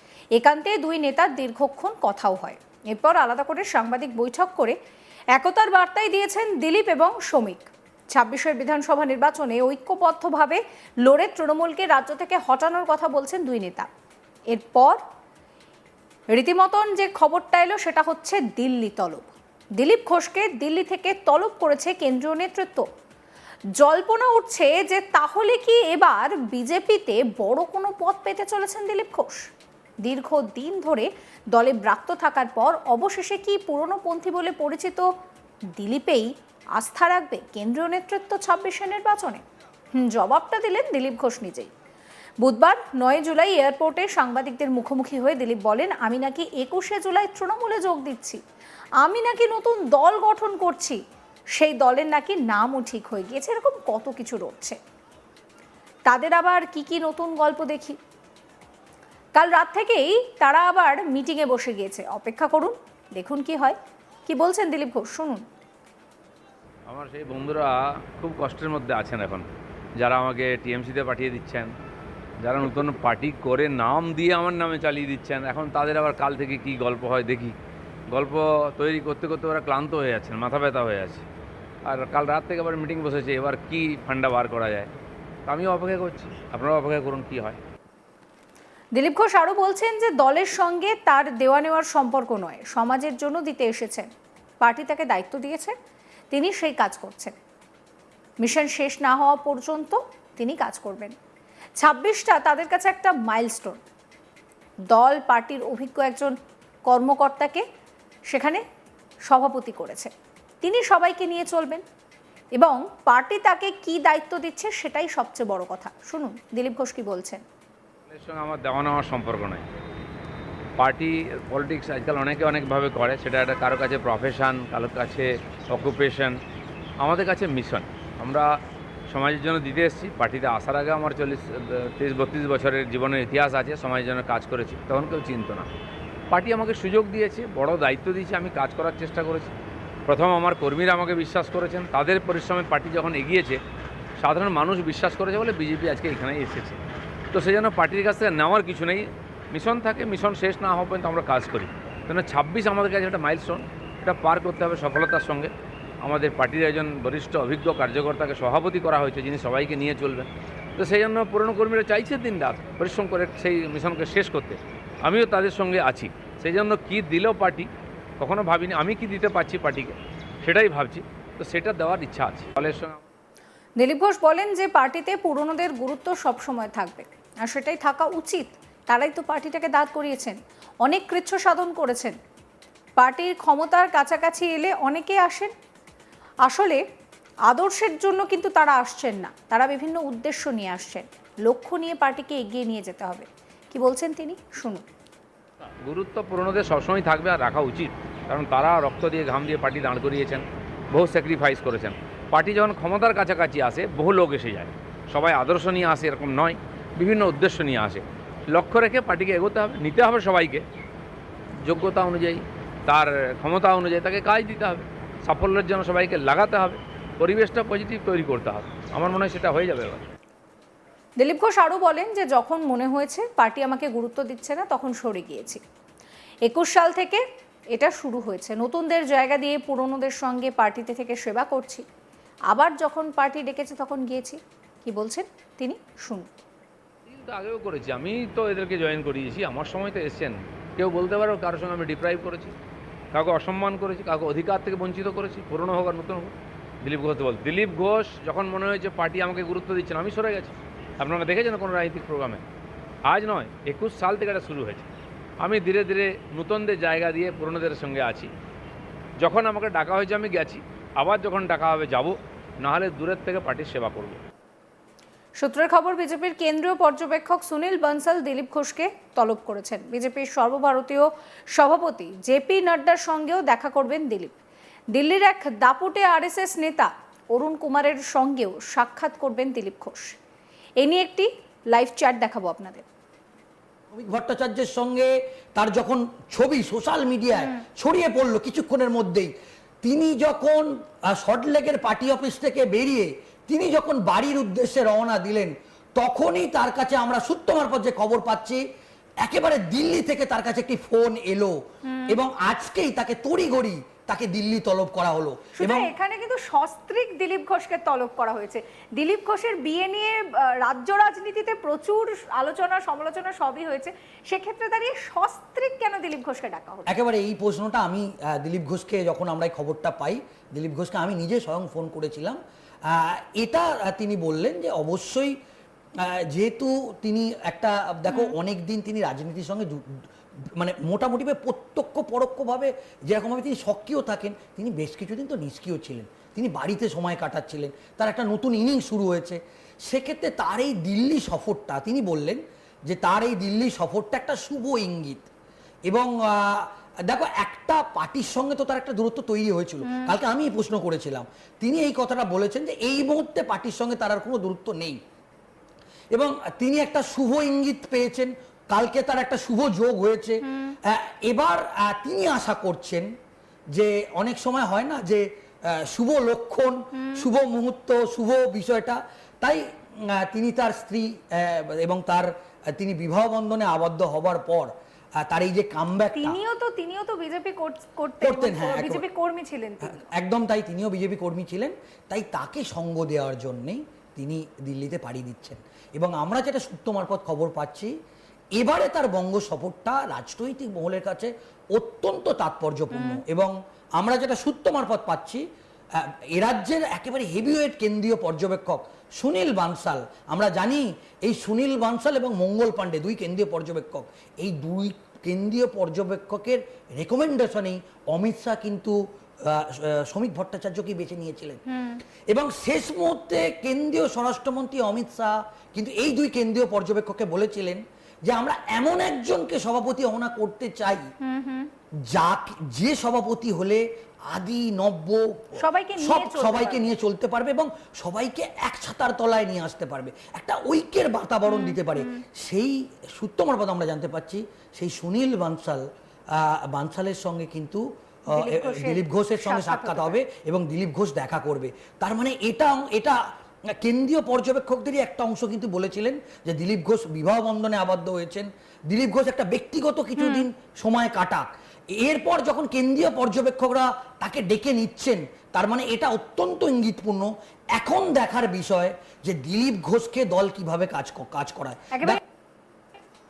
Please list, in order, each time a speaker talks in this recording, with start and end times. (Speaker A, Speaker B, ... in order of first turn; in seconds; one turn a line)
Speaker A: 0.3-4.8
Speaker A: 5.4-13.9
Speaker A: 14.5-15.0
Speaker A: 16.3-22.9
Speaker A: 23.8-29.5
Speaker A: 30.0-35.1
Speaker A: 35.7-39.4
Speaker A: 40.0-41.7
Speaker A: 42.4-48.4
Speaker A: 49.0-51.0
Speaker A: 51.6-54.8
Speaker A: 56.1-58.0
Speaker A: 59.4-65.4
Speaker B: 66.9-69.5
Speaker B: 70.0-71.7
Speaker B: 72.4-77.6
Speaker B: 78.1-81.3
Speaker B: 81.9-84.9
Speaker B: 85.5-87.6
Speaker A: 89.0-94.1
Speaker A: 94.6-95.7
Speaker A: 96.3-97.3
Speaker A: 98.4-101.1
Speaker A: 101.8-103.8
Speaker A: 104.9-106.3
Speaker A: 106.9-107.6
Speaker A: 108.3-108.6
Speaker A: 109.3-111.8
Speaker A: 112.5-117.4
Speaker B: 118.1-119.7
Speaker B: 120.8-126.4
Speaker B: 127.0-128.5
Speaker B: 129.1-135.7
Speaker B: 136.3-139.5
Speaker B: 140.1-143.6
Speaker B: 144.2-146.8
Speaker B: 147.3-155.5
Speaker B: 156.0-167.7
Speaker B: 168.2-173.0
Speaker A: 173.8-182.2
Speaker A: 183.0-185.5
Speaker A: 186.4-186.8
Speaker A: 187.5-194.9
Speaker B: 195.8-210.7
Speaker B: 211.6-220.1
Speaker A: 221.2-225.6
Speaker A: 226.4-231.8
Speaker A: 232.5-236.3
Speaker B: 237.1-242.6
Speaker B: 243.1-252.4
Speaker B: 253.1-254.9
Speaker B: 255.4-258.3
Speaker B: 259.2-264.2
Speaker A: 265.4-274.4
Speaker A: 274.9-280.1
Speaker A: 280.8-282.9
Speaker C: 283.9-289.3
Speaker C: 289.8-298.6
Speaker C: 299.2-301.6
Speaker A: 301.9-302.2
Speaker C: 302.1-305.9
Speaker A: 305.6-316.9
Speaker C: 316.9-325.3
Speaker C: 326.0-330.0
Speaker A: 328.1-328.4
Speaker C: 330.6-345.3
Speaker C: 345.9-355.0
Speaker A: 349.8-350.1
Speaker C: 356.1-363.1
Speaker A: 360.5-360.8
Speaker C: 363.7-376.4
Speaker A: 367.0-367.2
Speaker A: 376.2-380.1
Speaker C: 378.2-379.1
Speaker C: 379.8-387.9
Speaker C: 388.6-395.4
Speaker A: 392.9-393.2
Speaker C: 395.9-411.6
Speaker A: 411.7-412.0
Speaker C: 412.3-421.0
Speaker A: 421.2-421.7
Speaker C: 422.1-443.2
Speaker A: 425.6-426.9
Speaker A: 431.5-432.2
Speaker A: 438.3-440.2
Speaker C: 443.8-451.5
Speaker A: 450.2-450.5
Speaker C: 452.0-462.2
Speaker A: 461.9-462.2